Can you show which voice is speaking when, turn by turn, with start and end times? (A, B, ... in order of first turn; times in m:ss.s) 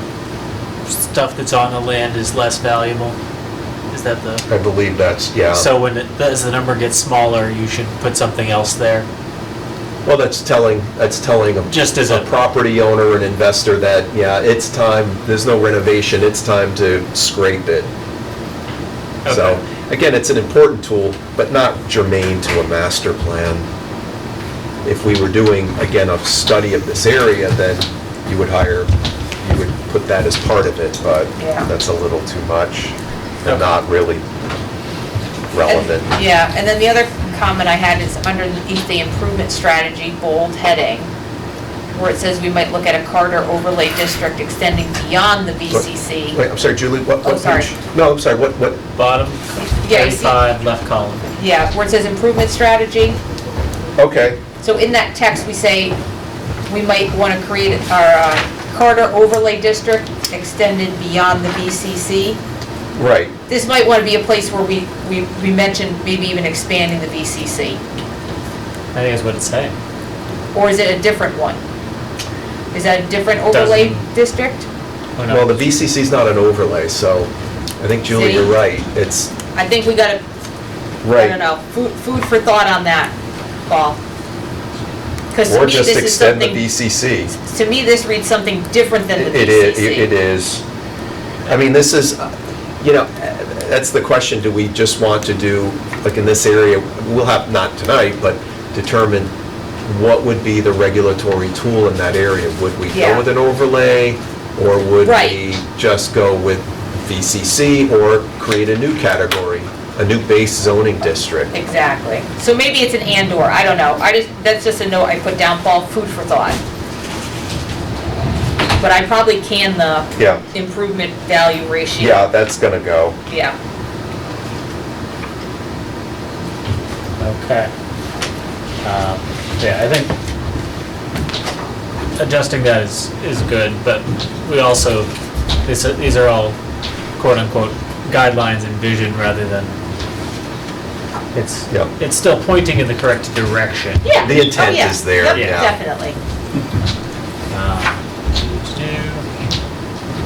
0:00.9-0:03.2 A
0:03.9-0:04.4 A
0:04.5-0:05.7 B
0:05.5-0:09.1 A
0:10.0-0:17.9 B
0:11.7-0:12.3 A
0:19.2-0:19.6 A
0:19.2-0:23.7 B
0:24.8-0:28.9 B
0:29.4-0:34.2 B
0:31.4-0:31.7 C
0:35.5-0:36.1 B
0:35.6-0:41.1 C
0:41.9-0:46.4 C
0:45.7-0:48.8 B
0:47.2-0:47.7 C
0:48.9-0:51.2 A
0:49.6-0:50.4 C
0:51.4-0:53.2 C
0:54.0-0:54.4 B
0:54.6-0:56.0 C
0:56.7-1:02.4 C
1:02.9-1:03.3 B
1:03.5-1:07.8 C
1:08.9-1:09.7 A
1:10.5-1:11.6 C
1:12.7-1:14.7 C
1:13.5-1:14.0 A
1:15.2-1:15.6 A
1:15.3-1:19.3 B
1:18.1-1:18.5 C
1:19.5-1:20.2 C
1:21.0-1:21.4 B
1:21.1-1:23.1 C
1:23.7-1:24.0 C
1:25.3-1:26.6 C
1:25.4-1:27.3 B
1:27.4-1:30.1 C
1:29.1-1:30.6 B
1:31.4-1:39.3 B
1:39.8-1:51.5 B
1:42.9-1:43.2 C
1:45.0-1:45.4 C
1:51.5-1:56.6 C
1:58.8-2:02.2 C
2:00.2-2:00.4 B
2:02.0-2:03.2 B
2:03.3-2:03.5 C
2:07.2-2:07.7 A
2:08.8-2:10.1 A
2:12.2-2:15.1 A
2:15.6-2:16.6 A
2:17.2-2:19.7 A
2:21.3-2:24.2 A
2:24.0-2:26.2 C
2:24.2-2:25.8 B
2:25.3-2:25.6 A
2:27.5-2:29.2 A